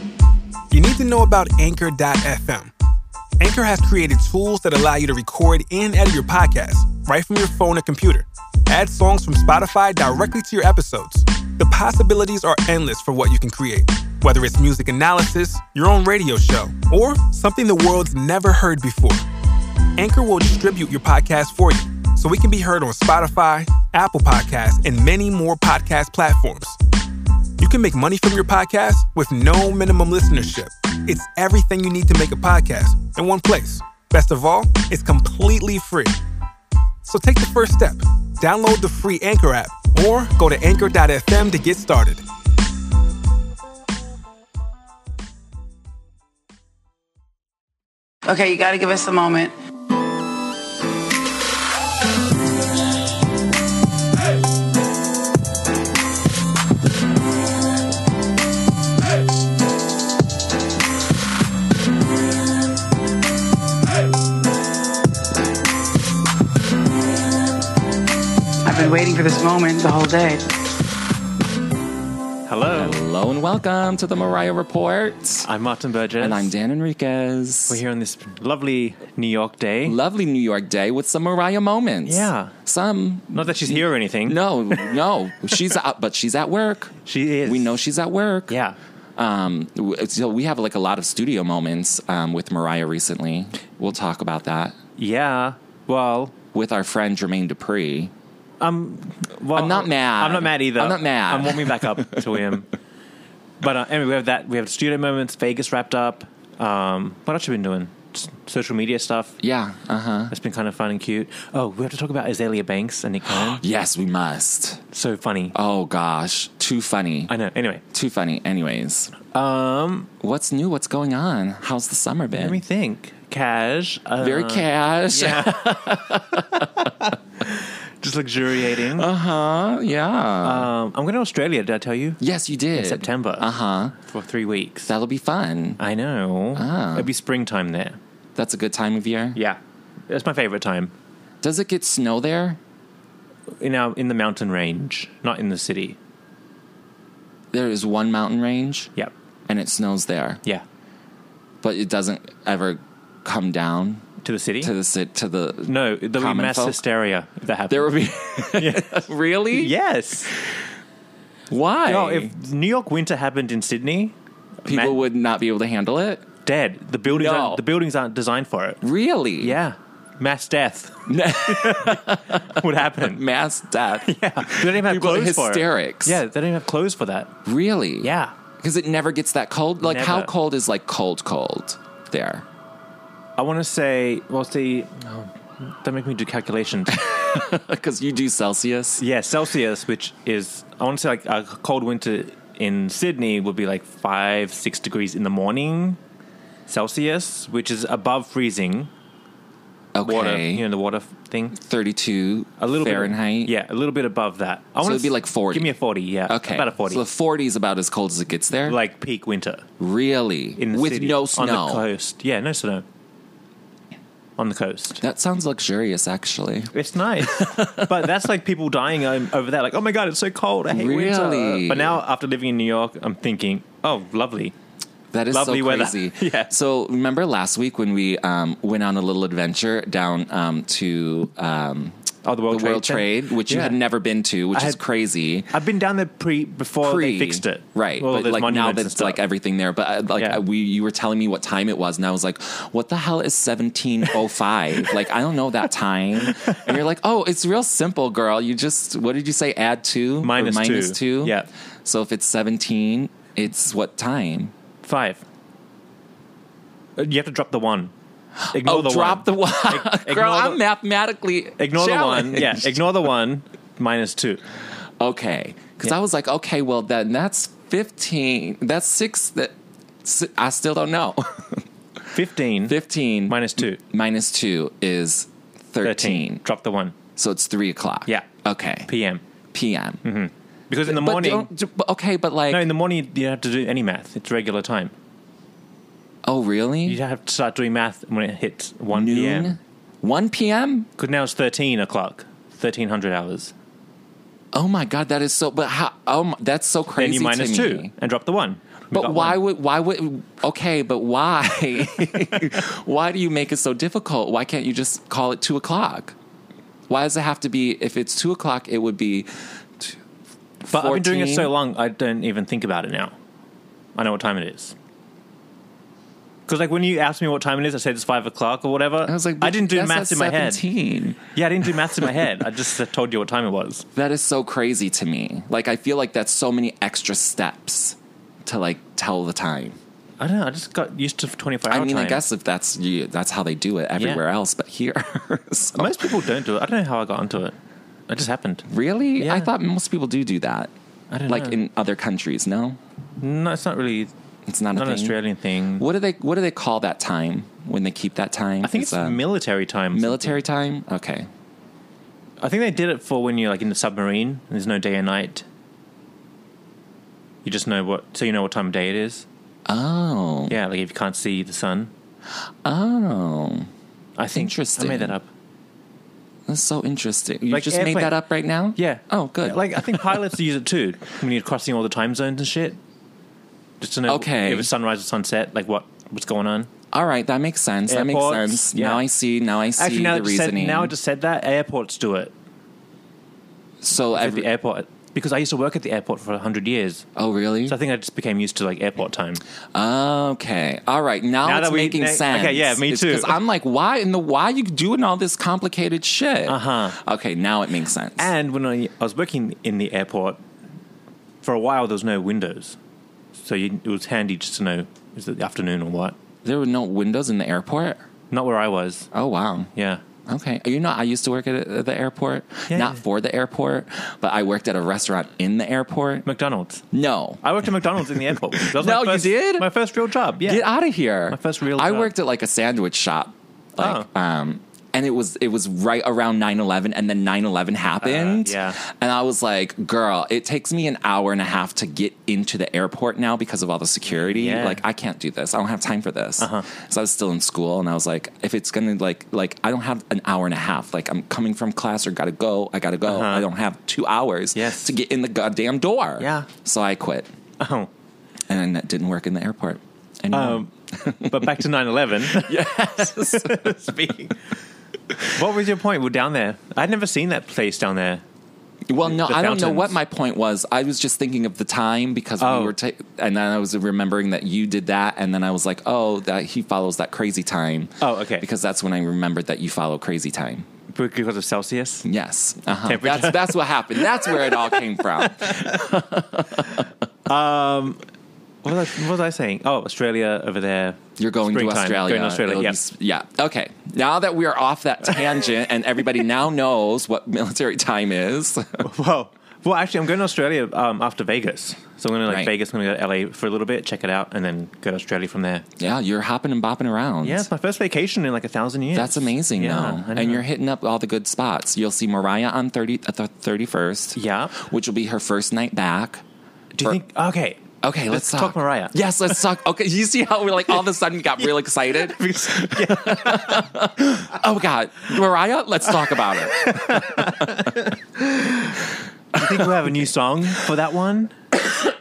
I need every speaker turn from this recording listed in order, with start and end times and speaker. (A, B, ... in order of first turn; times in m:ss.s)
0:00.7-0:02.7 A
0:03.4-0:19.2 A
0:20.0-0:26.8 A
0:27.6-0:36.2 A
0:37.0-0:42.2 A
0:48.2-0:49.5 B
1:08.6-1:10.4 B
1:12.5-1:13.0 C
1:12.8-1:15.5 D
1:15.4-1:16.5 C
1:16.2-1:17.8 D
1:17.7-1:20.0 C
1:19.8-1:28.5 D
1:22.0-1:22.6 C
1:23.3-1:25.0 C
1:27.0-1:27.8 C
1:28.5-1:28.8 C
1:29.2-1:34.8 D
1:35.0-1:36.3 C
1:36.5-1:38.1 D
1:38.6-1:42.7 C
1:39.5-1:42.2 D
1:43.6-1:49.4 C
1:49.4-1:50.3 D
1:50.3-1:53.6 C
1:53.3-1:54.8 D
1:54.9-1:55.5 C
1:55.5-1:57.3 D
1:57.3-1:57.8 C
1:57.9-1:59.1 D
1:59.3-2:00.1 C
2:00.2-2:02.6 D
2:02.3-2:09.1 C
2:04.2-2:07.1 D
2:08.6-2:10.7 D
2:10.4-2:12.2 C
2:12.2-2:14.0 D
2:12.7-2:13.5 C
2:14.0-2:14.9 C
2:14.9-2:15.8 D
2:15.8-2:18.0 C
2:16.5-2:17.1 D
2:18.4-2:19.4 D
2:19.3-2:20.9 C
2:21.4-2:22.6 D
2:23.6-2:26.0 C
2:27.5-2:28.9 D
2:29.5-2:30.4 D
2:31.6-2:34.0 D
2:34.2-2:34.7 C
2:34.6-2:36.8 D
2:35.7-2:37.9 C
2:37.7-2:39.7 D
2:38.5-2:40.3 C
2:41.5-2:42.3 D
2:41.8-2:45.0 C
2:44.6-2:46.3 D
2:46.4-2:48.8 C
2:47.1-2:47.6 D
2:48.8-2:49.6 D
2:49.4-2:53.2 C
2:51.1-2:56.2 D
2:54.0-2:57.4 C
2:57.4-3:02.4 D
2:58.0-2:58.3 C
2:59.8-3:00.3 C
3:03.4-3:07.1 C
3:06.9-3:09.0 D
3:09.0-3:16.0 C
3:16.7-3:18.9 C
3:19.9-3:20.6 D
3:20.0-3:21.6 C
3:21.6-3:23.5 D
3:22.6-3:27.0 C
3:24.8-3:25.7 D
3:26.3-3:28.8 D
3:28.6-3:29.6 C
3:29.8-3:31.8 D
3:30.6-3:32.8 C
3:34.4-3:35.0 C
3:35.0-3:38.1 D
3:36.7-3:44.5 C
3:40.7-3:42.0 D
3:45.1-3:55.5 D
3:45.3-3:46.5 C
3:52.2-3:53.8 C
3:54.5-3:54.8 C
3:55.5-3:59.2 C
3:56.8-4:14.5 D
4:00.1-4:00.4 C
4:06.3-4:06.6 C
4:10.2-4:11.5 C
4:14.8-4:15.2 C
4:17.0-4:17.9 C
4:18.4-4:22.9 D
4:18.5-4:20.6 C
4:21.6-4:24.4 C
4:25.0-4:31.6 D
4:32.1-4:33.8 C
4:32.7-4:36.4 D
4:35.8-4:37.0 C
4:37.2-4:38.9 D
4:38.9-4:39.2 C
4:39.5-4:40.0 D
4:40.0-4:41.5 C
4:40.8-4:42.7 D
4:42.5-4:44.9 C
4:46.2-4:47.0 D
4:46.8-4:49.6 C
4:48.9-4:50.9 D
4:51.0-4:53.5 C
4:54.5-4:57.9 D
4:57.0-4:59.4 C
4:58.9-5:06.1 D
5:06.9-5:10.0 D
5:10.6-5:11.5 D
5:10.7-5:13.1 C
5:14.0-5:14.7 C
5:16.5-5:20.6 C
5:19.0-5:22.0 D
5:21.3-5:23.8 C
5:23.9-5:29.8 D
5:30.2-5:32.2 C
5:31.7-5:36.2 D
5:34.0-5:34.2 C
5:35.8-5:37.5 C
5:38.1-5:39.5 C
5:38.7-5:40.7 D
5:41.1-5:41.6 C
5:41.3-5:42.8 D
5:43.2-5:44.1 C
5:44.5-5:45.2 D
5:44.7-5:45.8 C
5:45.8-5:49.2 D
5:48.6-5:50.4 C
5:49.9-5:51.3 D
5:52.4-5:55.4 C
5:57.4-5:59.2 C
5:59.7-6:00.6 D
6:00.5-6:01.9 C
6:02.6-6:03.7 D
6:04.2-6:05.3 C
6:04.3-6:05.2 D
6:06.5-6:10.2 D
6:07.5-6:08.2 C
6:08.8-6:12.8 C
6:13.8-6:16.7 C
6:14.1-6:14.7 D
6:16.9-6:20.9 D
6:17.9-6:19.0 C
6:19.8-6:22.3 C
6:23.8-6:24.5 D
6:24.1-6:27.1 C
6:27.2-6:27.8 D
6:27.6-6:29.4 C
6:29.7-6:38.3 D
6:31.4-6:33.4 C
6:36.5-6:37.0 C
6:38.2-6:40.4 C
6:41.4-6:42.8 C
6:43.4-6:46.2 C
6:46.4-6:48.0 D
6:48.3-6:49.1 C
6:49.1-6:49.7 D
6:49.7-6:50.0 C
6:50.2-6:56.2 D
6:52.7-6:53.0 C
6:56.2-6:56.8 C
6:56.9-6:57.4 D
6:57.4-7:00.7 C
6:58.2-6:59.7 D
7:00.4-7:27.3 D
7:01.3-7:02.1 C
7:03.8-7:04.1 C
7:08.0-7:08.8 C
7:14.2-7:14.8 C
7:16.4-7:16.7 C
7:23.0-7:23.5 C
7:24.5-7:24.9 C
7:26.2-7:26.5 C
7:27.6-7:27.9 C
7:28.5-7:31.6 D
7:30.3-7:34.4 C
7:32.3-7:34.1 D
7:35.3-7:38.2 C
7:38.9-7:50.7 D
7:39.0-7:40.0 C
7:42.4-7:42.7 C
7:48.0-7:48.5 C
7:50.9-7:52.1 C
7:52.0-7:56.9 D
7:52.8-7:54.7 C
7:55.4-7:55.7 C
7:57.2-7:58.0 C
7:58.6-8:02.8 C
8:01.2-8:08.9 D
8:08.8-8:15.6 C
8:12.2-8:12.5 D
8:15.8-8:17.4 D
8:17.2-8:20.4 C
8:18.9-8:26.2 D
8:24.2-8:24.6 C
8:26.7-8:29.0 C
8:27.8-8:37.9 D
8:31.9-8:33.7 C
8:36.5-8:41.4 C
8:39.3-8:39.9 D